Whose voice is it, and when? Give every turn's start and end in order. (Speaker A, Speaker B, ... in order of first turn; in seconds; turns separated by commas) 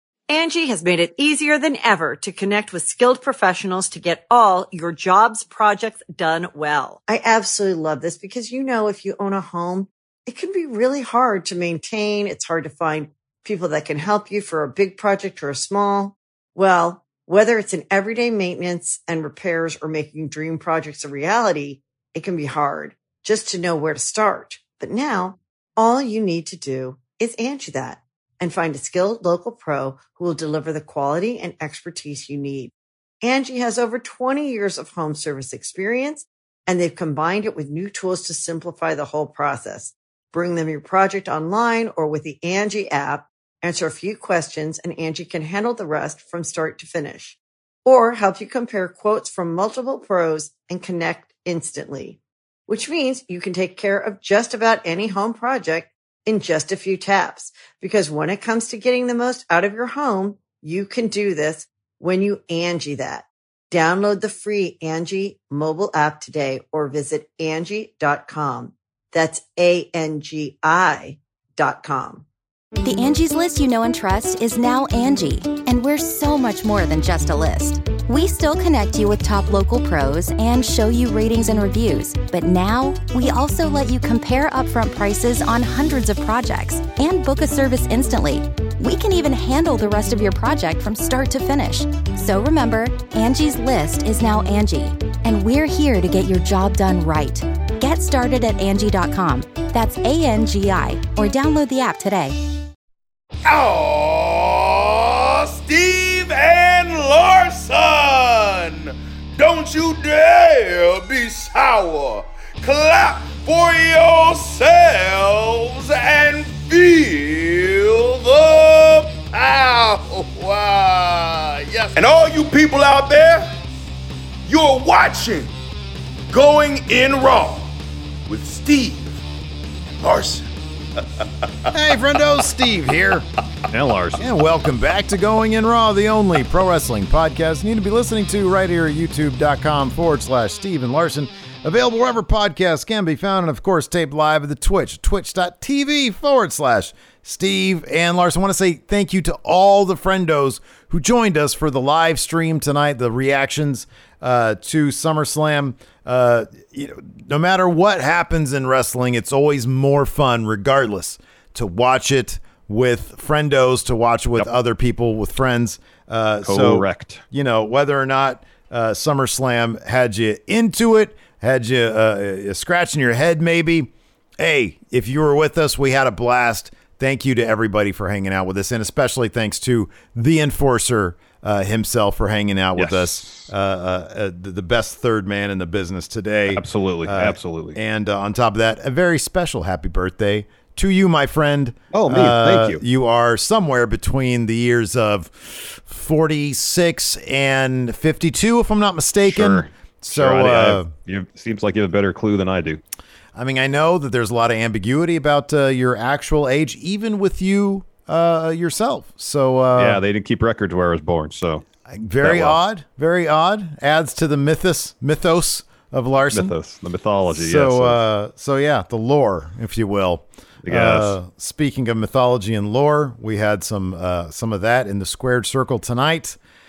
Speaker A: 0.3-32.7, Speaker A: 33.2-72.2, Speaker B: 72.8-102.4, Speaker C: 103.4-123.5, Speaker C: 124.5-125.5, Speaker C: 126.3-127.7, Speaker C: 128.3-129.2, Speaker C: 130.0-130.5, Speaker D: 131.7-133.3, Speaker E: 133.7-134.3, Speaker D: 134.2-200.9, Speaker E: 166.4-167.2, Speaker E: 182.8-183.5, Speaker E: 186.5-187.8, Speaker E: 191.9-192.8, Speaker E: 199.3-202.8, Speaker D: 203.3-210.0, Speaker E: 209.7-211.6, Speaker D: 211.9-216.5, Speaker E: 212.2-212.6, Speaker E: 216.3-218.0, Speaker D: 217.3-226.4, Speaker E: 220.6-221.2